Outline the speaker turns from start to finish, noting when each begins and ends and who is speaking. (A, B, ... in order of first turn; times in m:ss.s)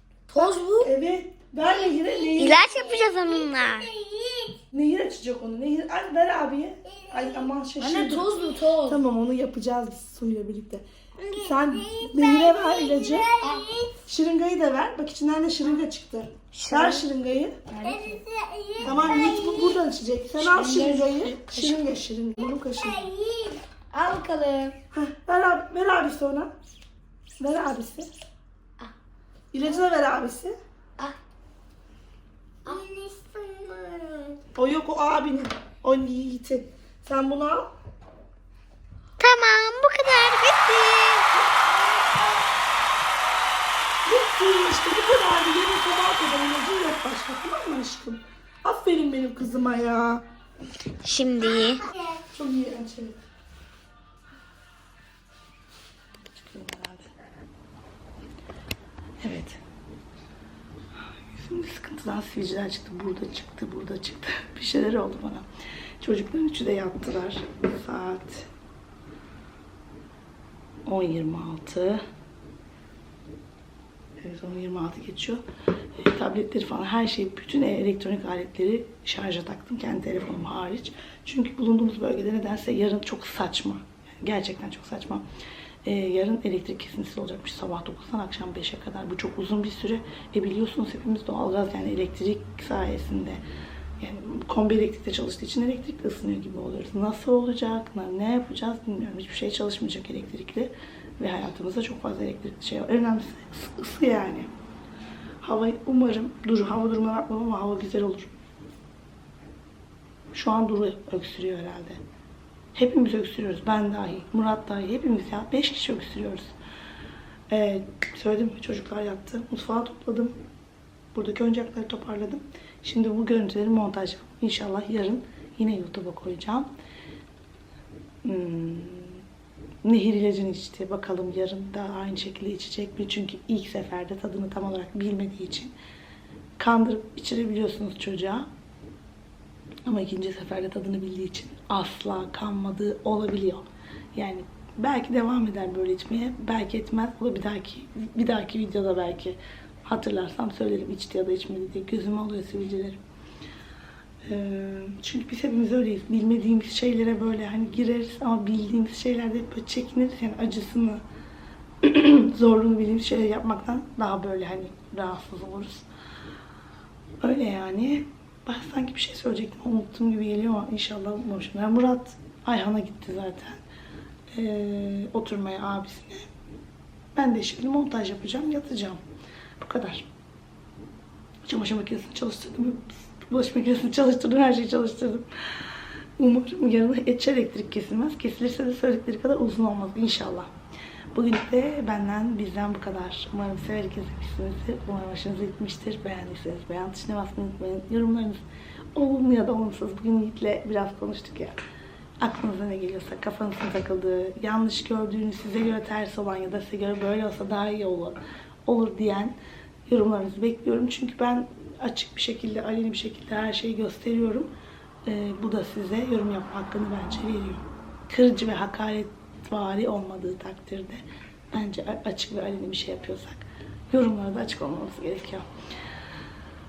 0:00.3-0:00.9 A
0:00.3-0:02.8 B
0:02.3-0:04.5 C
0:04.7-0:08.3 B
0:07.8-0:09.0 A
0:08.9-0:13.3 B
0:12.2-0:13.6 C
0:13.4-0:13.6 A
0:14.0-0:17.6 B
0:16.5-0:17.0 A
0:17.7-0:18.2 A
0:18.8-0:23.1 B
0:19.0-0:19.7 C
0:20.4-0:21.9 A
0:22.8-0:23.4 C
0:23.9-0:24.8 A
0:24.9-0:26.5 B
0:27.4-0:28.1 B
0:29.5-0:30.6 B
0:32.6-0:34.4 C
0:34.5-0:37.7 B
0:39.2-0:42.3 C
0:44.0-0:50.2 B
0:51.0-0:51.9 C
0:52.3-0:53.2 B
0:56.3-0:57.1 B
0:59.2-0:59.6 B
1:01.2-1:05.5 B
1:06.0-1:08.5 B
1:10.8-1:12.0 B
1:14.2-1:15.4 B
1:16.0-1:25.2 B
1:25.8-1:33.4 B
1:34.0-1:44.5 B
1:45.4-1:48.4 B
1:50.3-1:52.0 B
1:52.7-1:56.5 B
1:57.5-2:00.4 B
2:01.1-2:06.7 B
2:08.2-2:09.2 B
2:09.8-2:15.7 B
2:16.6-2:18.5 B
2:19.9-2:33.0 B
2:34.2-2:41.0 B
2:41.8-2:45.8 B
2:47.2-2:53.6 B
2:54.3-2:56.3 B
2:57.2-2:59.0 B
2:59.6-3:00.1 B
3:01.4-3:05.3 B
3:06.2-3:10.5 B
3:11.1-3:18.4 B
3:18.9-3:21.6 B
3:22.2-3:29.4 B
3:29.9-3:34.5 B
3:35.0-3:45.5 B